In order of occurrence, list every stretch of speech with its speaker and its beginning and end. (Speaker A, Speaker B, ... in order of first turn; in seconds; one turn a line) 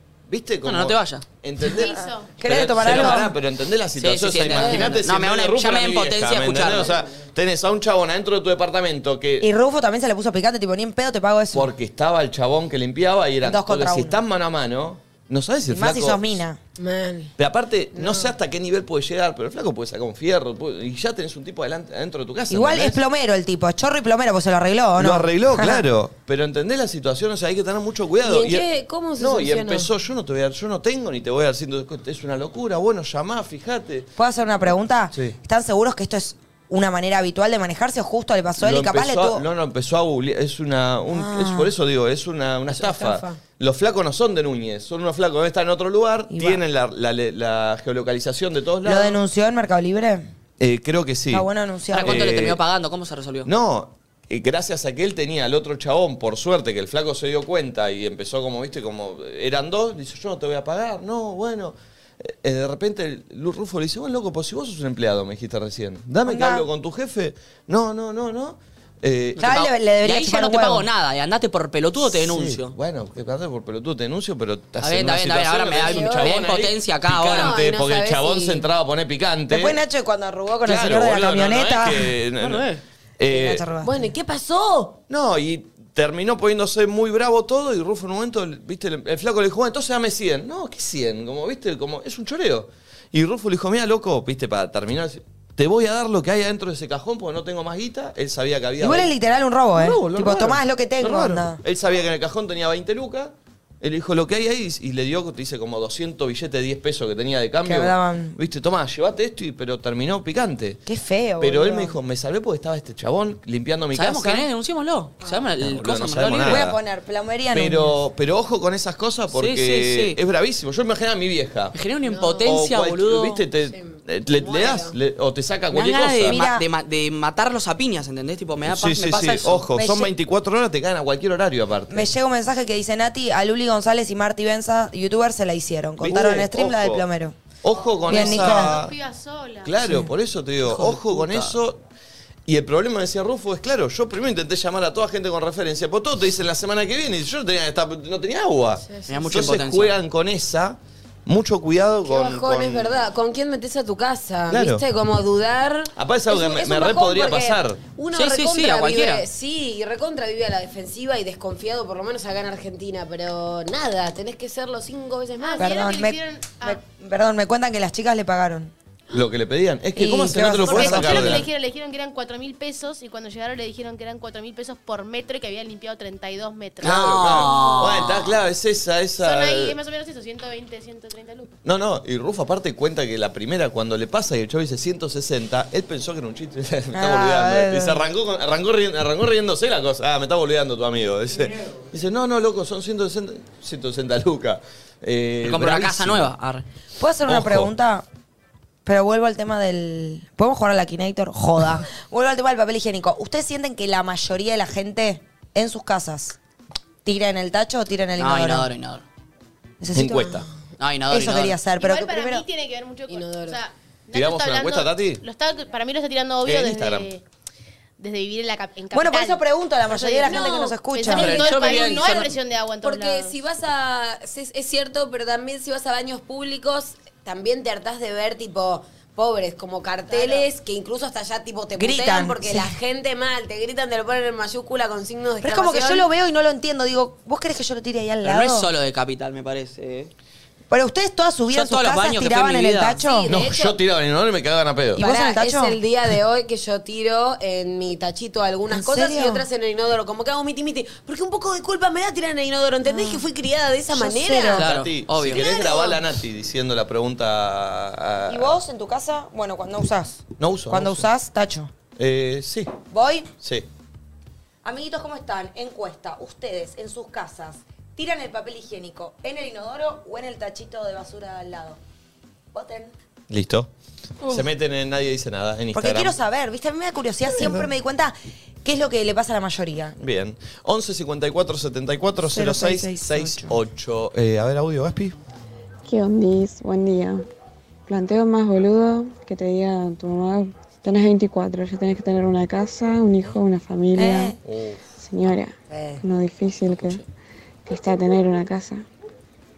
Speaker A: 0.3-9.5
Speaker B: 0.6-1.2
Speaker C: 1.7-3.3
Speaker D: 1.7-2.4
Speaker B: 2.9-3.2
Speaker B: 4.0-6.9
Speaker E: 4.6-5.0
Speaker C: 9.4-11.7
Speaker A: 11.5-16.4
Speaker C: 13.4-14.2
Speaker C: 15.7-16.6
Speaker E: 16.8-17.3
Speaker A: 17.4-23.0
Speaker E: 17.9-18.3
Speaker C: 22.5-25.9
Speaker A: 25.0-34.1
Speaker E: 28.2-29.9
Speaker C: 34.2-39.4
Speaker A: 38.6-49.2
Speaker C: 41.1-41.7
Speaker C: 42.7-43.2
Speaker C: 46.3-46.6
Speaker C: 48.9-50.3
Speaker A: 50.6-51.5
Speaker C: 51.3-52.3
Speaker B: 51.9-53.5
Speaker A: 52.0-52.6
Speaker A: 53.5-69.7
Speaker C: 66.2-66.7
Speaker B: 69.4-72.8
Speaker C: 69.4-70.9
Speaker A: 72.0-79.8
Speaker B: 74.8-77.6
Speaker E: 75.8-76.4
Speaker E: 77.4-78.7
Speaker C: 79.5-82.1
Speaker A: 80.7-83.7
Speaker B: 82.4-82.8
Speaker C: 83.2-84.1
Speaker E: 83.8-85.0
Speaker A: 85.1-99.1
Speaker C: 98.8-101.6
Speaker A: 99.8-110.8
Speaker C: 107.6-108.4
Speaker C: 110.9-112.0
Speaker A: 111.4-114.5
Speaker B: 113.9-116.6
Speaker A: 115.6-116.8
Speaker C: 116.4-118.0
Speaker A: 117.5-121.8
Speaker B: 119.3-120.2
Speaker B: 121.7-123.4
Speaker E: 122.1-122.5
Speaker A: 122.4-126.4
Speaker E: 123.7-125.0
Speaker B: 125.7-129.7
Speaker C: 126.2-126.7
Speaker A: 128.7-132.1
Speaker C: 129.8-130.1
Speaker C: 131.9-137.3
Speaker A: 136.0-137.0
Speaker A: 137.6-138.9
Speaker D: 138.0-139.8
Speaker C: 138.1-138.8
Speaker A: 139.7-141.8
Speaker C: 139.8-140.1
Speaker B: 140.6-141.6
Speaker A: 142.5-153.0
Speaker E: 148.9-149.5
Speaker B: 149.1-149.9
Speaker E: 152.1-165.8
Speaker A: 154.5-154.8
Speaker A: 156.0-157.8
Speaker B: 158.1-159.2
Speaker D: 165.4-166.8
Speaker C: 165.6-168.7
Speaker A: 169.1-171.5
Speaker C: 169.9-171.4
Speaker D: 170.6-177.7
Speaker A: 176.8-179.8
Speaker B: 176.8-178.4
Speaker D: 179.2-181.5
Speaker A: 181.6-196.3
Speaker C: 186.9-188.0
Speaker B: 195.4-196.7
Speaker C: 197.0-198.1
Speaker A: 197.3-197.7
Speaker C: 198.9-206.4
Speaker C: 207.1-208.7
Speaker B: 208.2-209.0
Speaker C: 209.8-210.5
Speaker A: 209.9-210.5
Speaker B: 210.8-211.6
Speaker C: 211.1-212.4
Speaker D: 211.8-217.2
Speaker E: 213.1-213.6
Speaker A: 214.1-215.2
Speaker A: 216.4-217.1
Speaker D: 218.0-223.4
Speaker C: 218.9-221.4
Speaker E: 220.2-220.8
Speaker B: 221.1-222.3
Speaker E: 221.7-222.0
Speaker E: 222.8-236.1
Speaker D: 230.1-230.5
Speaker C: 231.8-232.7
Speaker C: 235.4-238.7
Speaker B: 238.2-240.1
Speaker C: 240.7-243.3
Speaker B: 241.5-243.0
Speaker E: 243.0-243.8
Speaker A: 243.3-245.0
Speaker C: 245.0-245.8
Speaker E: 245.0-254.6
Speaker C: 248.7-249.4
Speaker C: 252.8-253.3
Speaker C: 253.9-254.7
Speaker B: 254.6-255.4
Speaker A: 254.6-258.6
Speaker E: 255.3-256.0
Speaker C: 258.3-261.7
Speaker A: 260.4-261.1
Speaker A: 262.0-262.7
Speaker C: 262.9-263.3
Speaker A: 263.4-263.7
Speaker C: 264.6-271.8
Speaker C: 272.5-272.9
Speaker A: 273.3-273.7
Speaker A: 274.2-276.2
Speaker C: 275.7-280.0
Speaker A: 280.0-285.2
Speaker C: 282.2-283.6
Speaker F: 285.9-287.2
Speaker F: 287.9-294.4
Speaker C: 293.9-294.4
Speaker A: 294.4-294.8
Speaker F: 295.0-297.0
Speaker C: 295.7-296.0
Speaker F: 297.7-298.8